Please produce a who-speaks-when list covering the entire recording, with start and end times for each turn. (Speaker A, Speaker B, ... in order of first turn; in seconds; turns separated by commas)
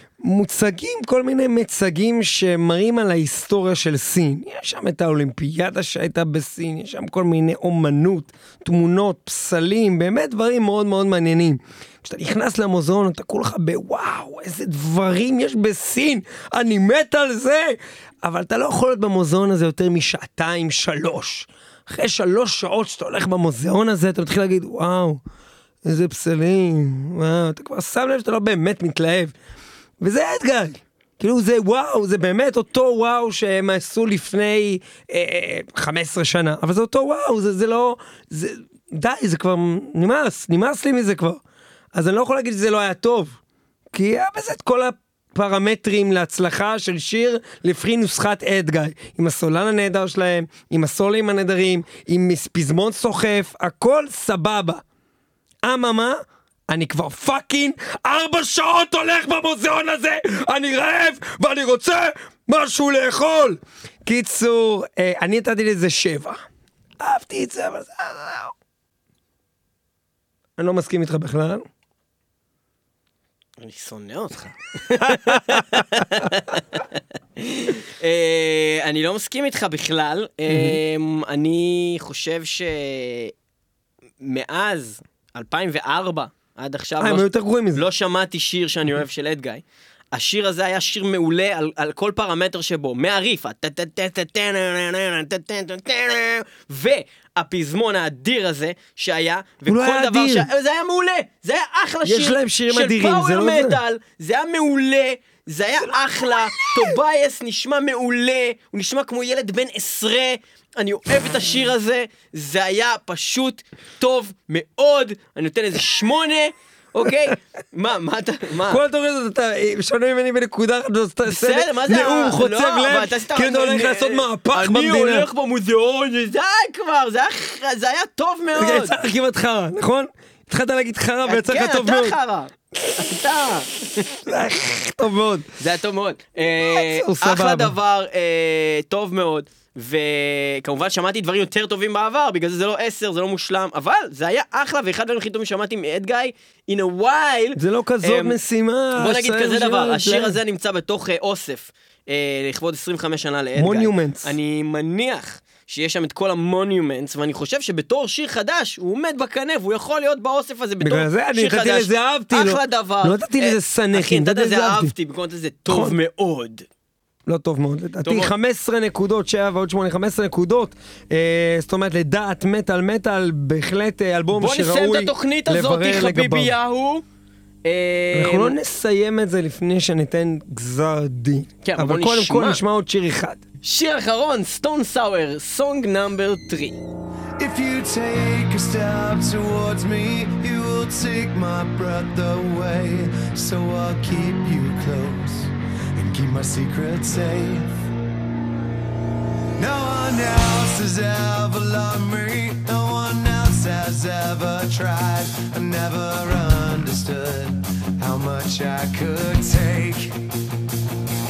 Speaker A: 0.2-25.2, Speaker A: 25.9-29.3, Speaker A: 30.0-41.4, Speaker A: 41.9-43.4, Speaker A: 43.9-54.8, Speaker A: 55.6-66.4, Speaker A: 67.0-68.5, Speaker A: 70.6-71.7, Speaker B: 73.6-83.3, Speaker A: 74.9-75.8, Speaker A: 80.5-80.8, Speaker B: 84.2-118.8, Speaker A: 87.0-87.8, Speaker A: 99.7-100.5, Speaker A: 102.0-103.8, Speaker A: 118.7-125.3, Speaker B: 121.3-129.0, Speaker A: 128.6-132.2, Speaker B: 131.3-134.1, Speaker A: 134.2-135.5, Speaker B: 135.6-148.4, Speaker A: 136.6-137.7, Speaker A: 147.6-150.4, Speaker B: 149.0-166.7, Speaker A: 153.6-154.3, Speaker A: 160.8-164.9, Speaker A: 165.7-165.9, Speaker A: 167.3-176.5, Speaker B: 168.0-168.3, Speaker B: 174.4-177.0, Speaker B: 177.7-178.6, Speaker A: 178.1-183.4, Speaker B: 181.6-182.6, Speaker B: 183.6-186.8, Speaker C: 187.4-197.7, Speaker C: 199.6-210.2